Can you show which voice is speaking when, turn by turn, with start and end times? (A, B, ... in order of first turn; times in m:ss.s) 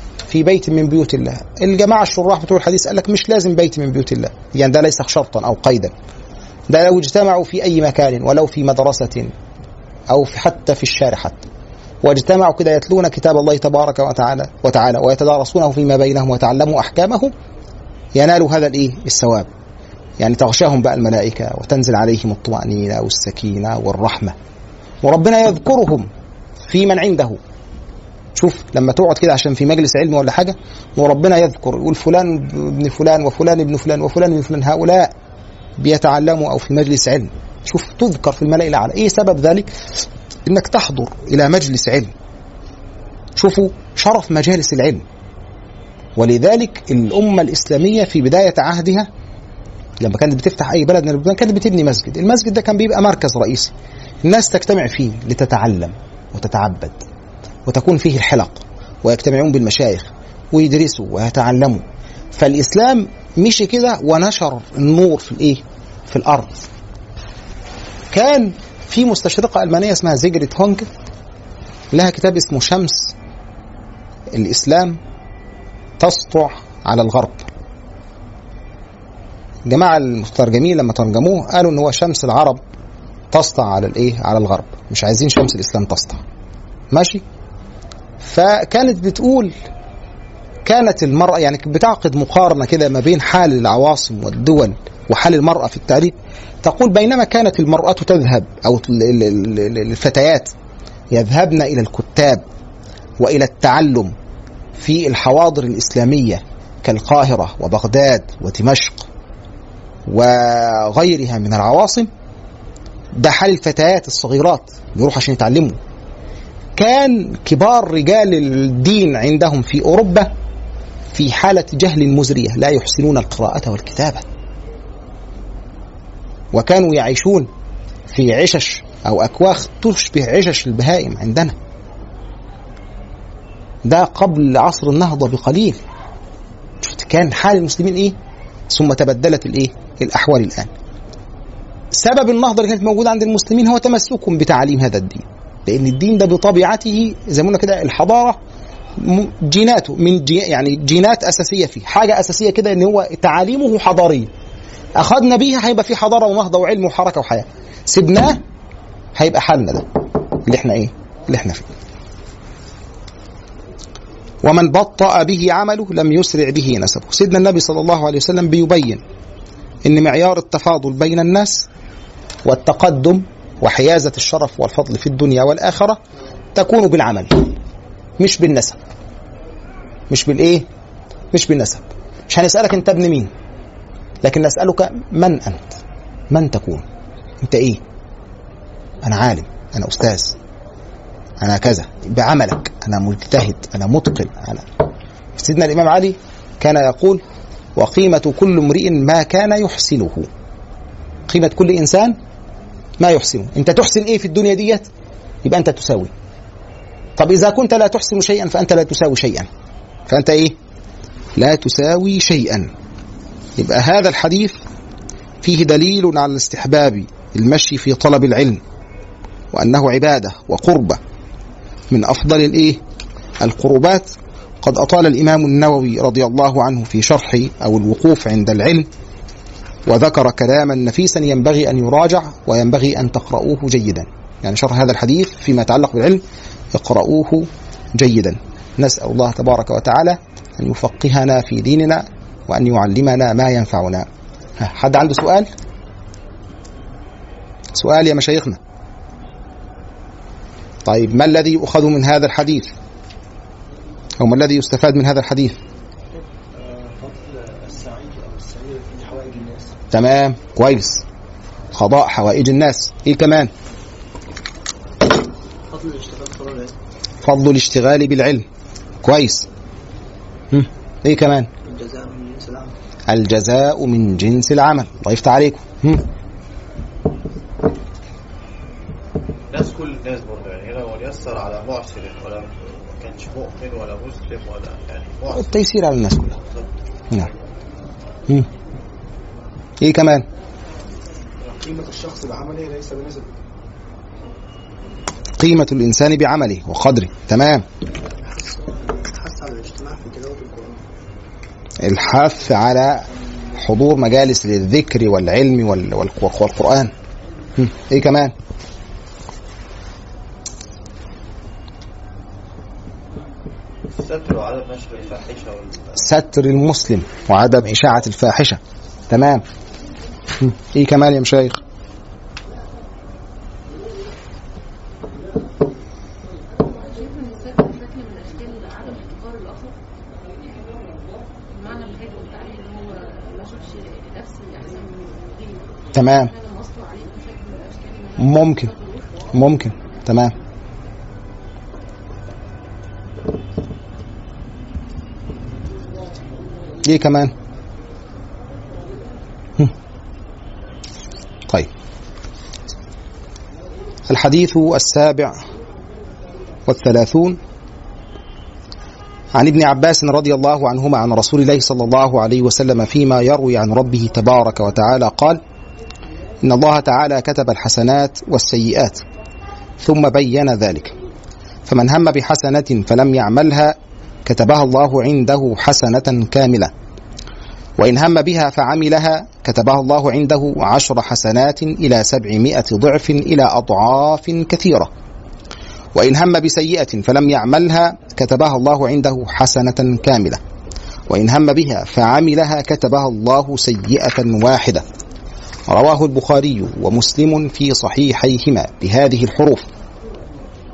0:00.3-0:05.9 A
0:06.7-0:09.3 A
0:10.1-0:11.4 A
0:12.0-0:17.3 A
0:18.1-0:19.5 A
0:20.2-0:24.3 A
0:25.0-0:26.1 A
0:26.6-0:27.4 A
0:28.3-0:35.1 A
0:35.8-0:39.7 A
0:40.4-0:42.1 A
0:43.4-0:45.0 A
0:46.2-0:49.1 A
0:50.0-0:53.7 A
0:54.2-0:57.0 A
0:57.6-1:01.8 A
1:02.3-1:06.6 A
1:08.1-1:10.9 A
1:11.9-1:13.1 A
1:14.3-1:15.0 A
1:16.0-1:17.5 A
1:19.6-1:22.6 A
1:23.3-1:26.2 A
1:26.9-1:27.2 A
1:28.2-1:29.5 A
1:30.6-1:40.5 A
1:41.1-1:42.4 A
1:43.2-1:44.1 A
1:44.8-1:49.1 A
1:50.1-1:52.1 A
1:53.1-1:55.8 A
1:56.8-2:00.3 A
2:01.1-2:04.2 A
2:06.5-2:07.5 A
2:08.1-2:11.5 A
2:13.8-2:15.8 A
2:16.8-2:18.2 A
2:18.7-2:20.7 A
2:21.9-2:28.4 A
2:29.0-2:34.3 A
2:35.0-2:38.4 A
2:39.1-2:39.8 A
2:40.4-2:41.7 A
2:44.4-2:49.0 A
2:49.8-2:51.7 A
2:52.4-2:56.0 A
2:56.5-2:57.5 A
2:58.2-2:58.8 A
3:00.1-3:00.6 A
3:01.3-3:03.3 A
3:04.2-3:06.8 A
3:07.4-3:07.8 A
3:09.0-3:10.4 A
3:11.4-3:14.6 A
3:15.4-3:17.2 A
3:17.8-3:20.3 A
3:21.3-3:22.2 A
3:23.0-3:24.8 A
3:25.4-3:26.1 A
3:27.2-3:29.5 A
3:30.1-3:30.5 A
3:31.4-3:32.7 A
3:33.6-3:34.6 A
3:35.4-3:38.6 A
3:39.5-3:41.0 A
3:41.9-3:42.8 A
3:43.4-3:44.1 A
3:44.6-3:48.9 A
3:49.8-3:56.2 A
3:56.7-4:04.1 A
4:04.6-4:05.5 A
4:07.7-4:08.6 A
4:10.8-4:12.7 A
4:14.2-4:15.6 A
4:16.5-4:19.7 B
4:19.9-4:21.0 A
4:21.7-4:23.5 A
4:25.7-4:26.7 C
4:27.2-4:28.4 A
4:29.0-4:29.5 A
4:30.5-4:31.5 A
4:31.6-4:32.7 C
4:33.1-4:36.1 A
4:39.5-4:45.5 D
4:45.3-4:46.4 A
4:46.4-4:47.3 D
4:49.8-4:50.2 A
4:51.4-4:53.4 B
4:55.4-4:57.6 A
4:58.1-5:00.8 C
5:01.8-5:03.0 A
5:03.6-5:06.9 A
5:07.6-5:08.3 A
5:13.9-5:16.0 D
5:16.0-5:19.4 A
5:20.4-5:21.6 A
5:26.8-5:29.7 E
5:30.4-5:30.7 E
5:31.5-5:39.4 E
5:35.9-5:36.3 A
5:38.2-5:38.7 A
5:39.3-5:40.3 A
5:46.8-5:47.3 A
5:54.1-5:55.4 A
5:56.7-5:57.4 A
5:59.3-6:05.4 A
6:06.4-6:09.0 A
6:09.8-6:10.9 A
6:11.6-6:16.7 A
6:17.8-6:24.9 A
6:25.9-6:30.4 A
6:31.1-6:34.8 A
6:35.7-6:39.6 A